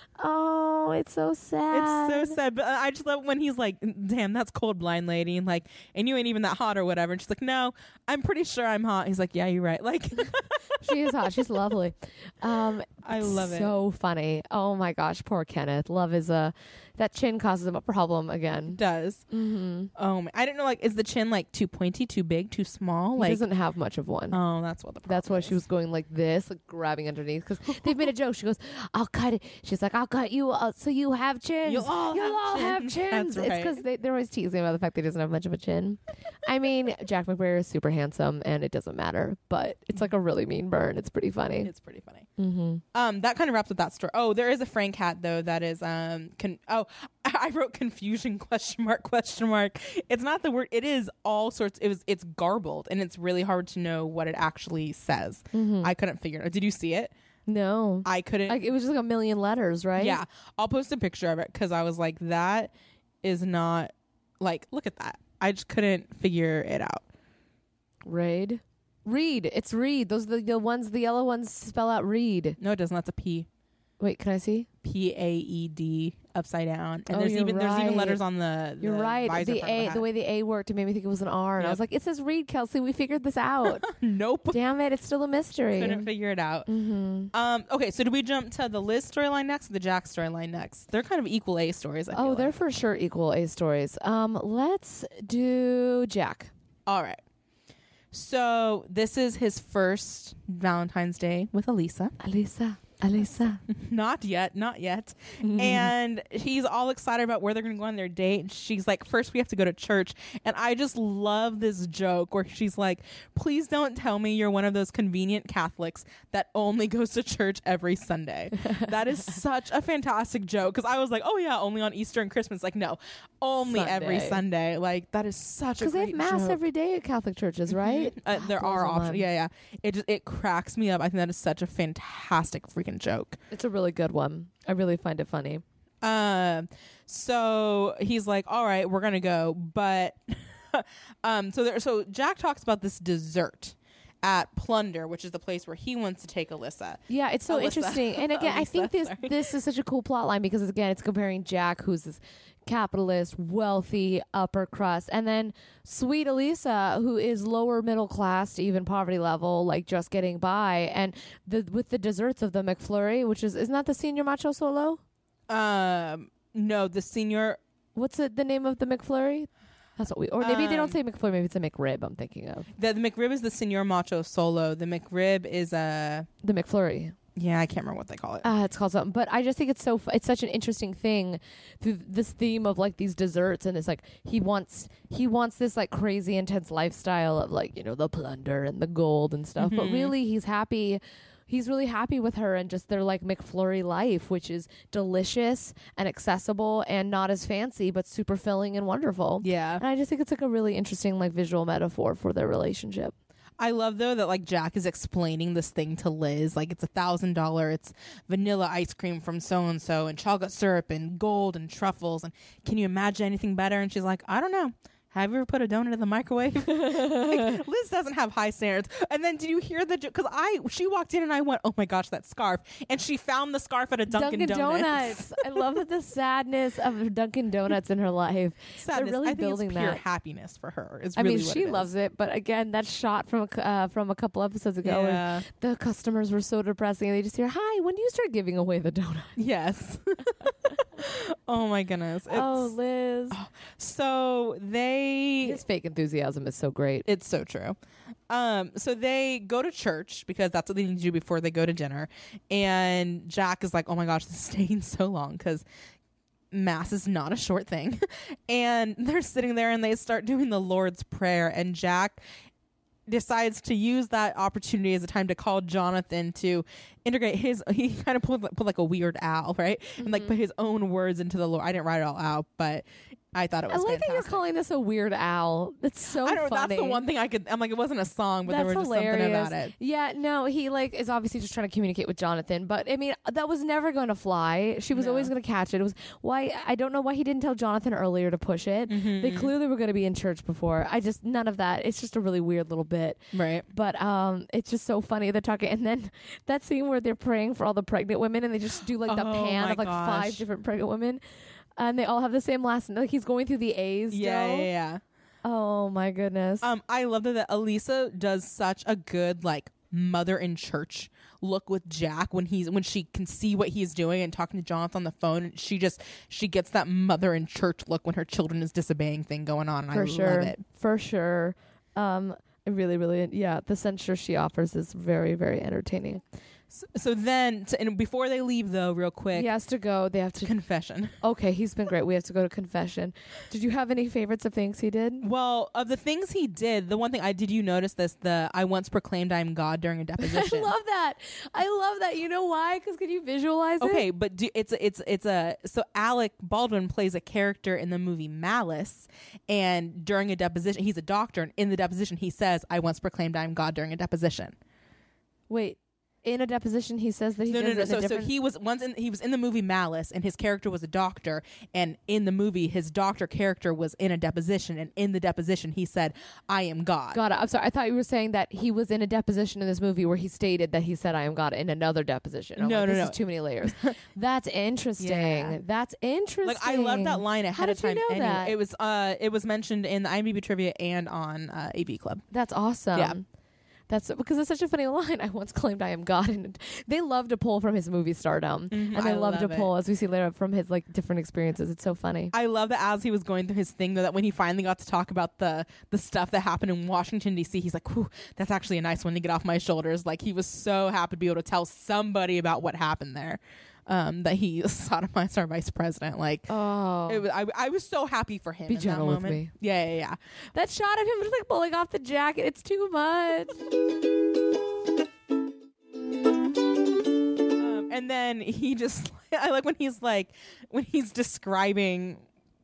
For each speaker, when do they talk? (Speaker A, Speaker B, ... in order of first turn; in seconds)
Speaker A: 0.2-2.4, 10.8-18.8, 19.3-19.9, 23.2-24.4, 25.1-41.7, 42.4-42.8, 55.5-55.9, 57.5-60.2, 68.1-72.6, 74.0-74.7, 77.1-78.2, 78.8-83.9, 84.5-86.1, 86.7-87.3, 92.1-96.5, 102.2-103.6, 105.4-105.9, 123.6-124.4, 125.8-129.2, 133.5-135.6, 147.1-165.0, 167.9-172.7, 176.4-177.2, 178.4-203.1, 216.7-217.6, 224.1-230.0, 231.2-239.4, 242.3-243.4, 245.4-247.1, 270.0-270.3, 273.7-277.0, 278.5-301.2, 301.8-304.7, 305.4-306.6, 319.9-326.2, 329.3-330.6, 331.2-335.2, 340.2-344.1, 355.5-358.3, 367.1-378.6, 382.3-383.2, 383.9-392.3, 406.5-407.2, 408.7-409.5, 410.6-413.6
Speaker B: 1.7-11.6, 13.0-13.8, 18.7-19.2, 20.0-23.4, 24.3-25.6, 31.6-33.8, 41.6-42.3, 42.9-57.1, 58.0-58.6, 60.0-62.7, 63.2-67.0, 72.6-73.5, 74.8-80.0, 83.7-84.6, 85.7-86.7, 87.3-92.6, 96.9-97.2, 98.1-102.2, 103.7-126.6, 127.7-133.4, 136.0-149.5, 165.5-167.6, 170.4-171.0, 172.8-176.3, 177.4-178.5, 189.6-190.1, 199.4-199.8, 203.6-225.6, 228.8-231.9, 234.8-235.4, 239.4-242.7, 243.3-245.6, 247.1-247.8, 248.3-255.6, 256.5-262.2, 263.1-274.4, 276.2-279.7, 284.9-285.3, 288.9-289.5, 293.3-293.7, 299.1-300.4, 304.1-305.0, 306.6-320.6, 326.7-329.5, 330.4-331.2, 335.2-340.7, 343.8-354.6, 357.5-367.2, 372.6-374.0, 375.0-375.6, 376.4-382.2, 388.7-389.7, 392.3-406.5, 407.1-410.2, 417.6-422.2